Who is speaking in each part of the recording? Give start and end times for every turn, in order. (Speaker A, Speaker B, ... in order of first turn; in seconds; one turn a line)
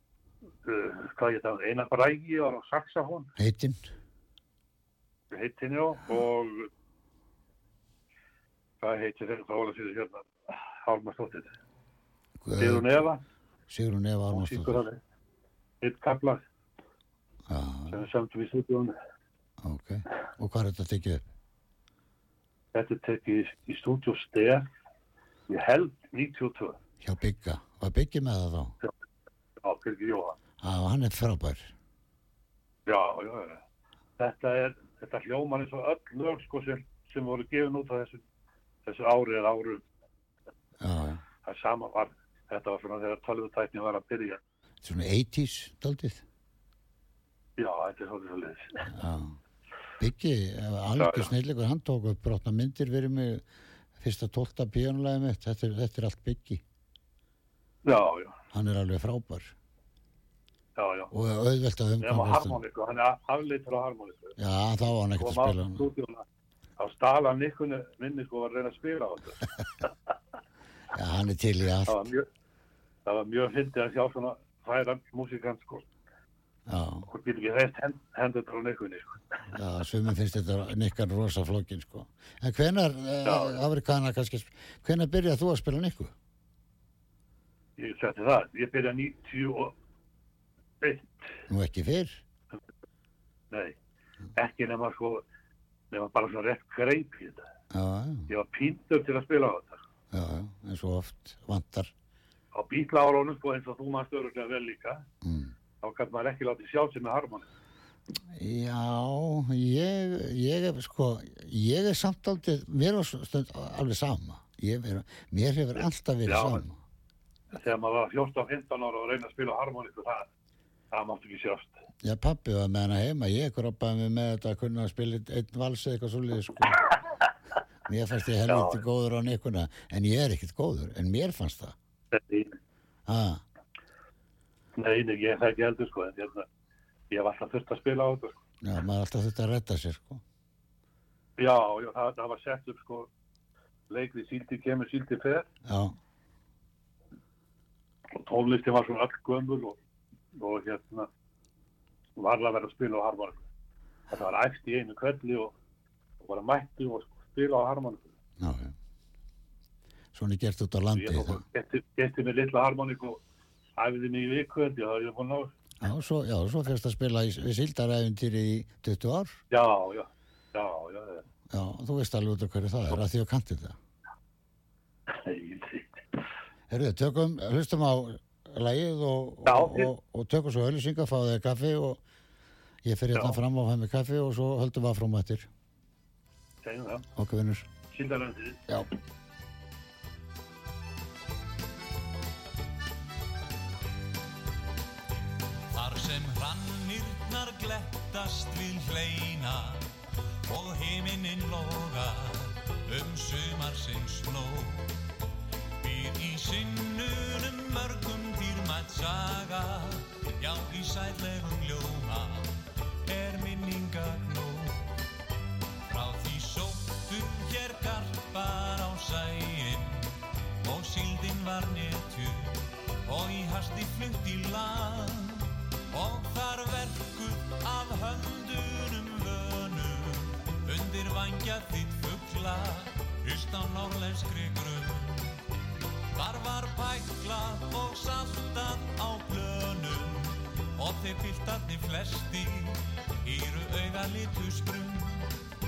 Speaker A: 0.6-3.3
Speaker B: 3.4-3.9
Speaker A: 5.3-6.7
Speaker A: 8.8-11.5
Speaker B: 12.4-12.9
Speaker A: 12.6-13.2
Speaker B: 13.7-14.8
Speaker A: 14.3-15.0
Speaker A: 15.8-16.4
Speaker B: 17.5-18.0
Speaker A: 17.9-18.9
Speaker B: 19.6-21.2
Speaker A: 22.7-24.6
Speaker A: 25.5-26.8
Speaker B: 27.0-28.7
Speaker A: 29.6-30.4
Speaker B: 30.6-31.7
Speaker A: 32.9-33.6
Speaker A: 34.2-38.2
Speaker A: 38.8-39.8
Speaker B: 40.8-41.2
Speaker A: 41.4-44.4
Speaker B: 44.8-46.2
Speaker A: 47.6-48.9
Speaker B: 48.9-49.4
Speaker B: 50.0-53.4
Speaker A: 51.0-51.3
Speaker B: 54.0-56.6
Speaker A: 57.8-58.4
Speaker B: 58.5-59.5
Speaker A: 60.8-61.1
Speaker B: 61.1-62.6
Speaker A: 62.0-64.3
Speaker B: 64.4-65.8
Speaker A: 65.2-66.2
Speaker A: 66.8-69.4
Speaker B: 70.9-72.0
Speaker A: 71.9-72.3
Speaker A: 73.0-75.8
Speaker B: 76.7-77.1
Speaker A: 77.1-79.2
Speaker B: 79.5-86.1
Speaker A: 83.2-83.6
Speaker A: 87.8-89.7
Speaker A: 90.8-91.2
Speaker B: 91.5-92.2
Speaker A: 93.5-93.8
Speaker A: 94.3-95.2
Speaker A: 95.9-97.4
Speaker B: 97.7-98.3
Speaker A: 98.3-99.8
Speaker B: 100.1-101.9
Speaker A: 102.5-105.0
Speaker B: 105.2-105.5
Speaker A: 105.8-107.5
Speaker B: 108.3-116.8
Speaker A: 116.2-116.6
Speaker A: 117.5-120.3
Speaker A: 120.9-121.7
Speaker B: 122.0-126.8
Speaker B: 127.8-131.7
Speaker A: 128.5-128.8
Speaker A: 132.1-132.6
Speaker B: 133.1-133.4
Speaker A: 134.8-136.5
Speaker A: 137.1-138.4
Speaker B: 138.6-140.2
Speaker A: 141.4-143.1
Speaker A: 143.9-145.4
Speaker B: 145.6-145.9
Speaker A: 148.1-149.8
Speaker A: 150.3-151.1
Speaker A: 152.2-153.4
Speaker A: 154.1-155.5
Speaker A: 156.2-158.1
Speaker B: 158.4-158.7
Speaker B: 160.1-161.4
Speaker A: 160.9-163.2
Speaker A: 163.8-165.5
Speaker B: 165.8-169.4
Speaker A: 169.5-171.2
Speaker B: 171.5-173.8
Speaker A: 175.1-176.0
Speaker B: 176.7-182.0
Speaker A: 179.4-179.9
Speaker B: 182.8-185.5
Speaker A: 186.6-187.0
Speaker B: 187.2-187.7
Speaker A: 187.9-188.7
Speaker C: 195.7-199.9
Speaker C: 200.4-205.0
Speaker C: 205.8-215.0
Speaker C: 215.9-235.4
Speaker C: 236.1-245.4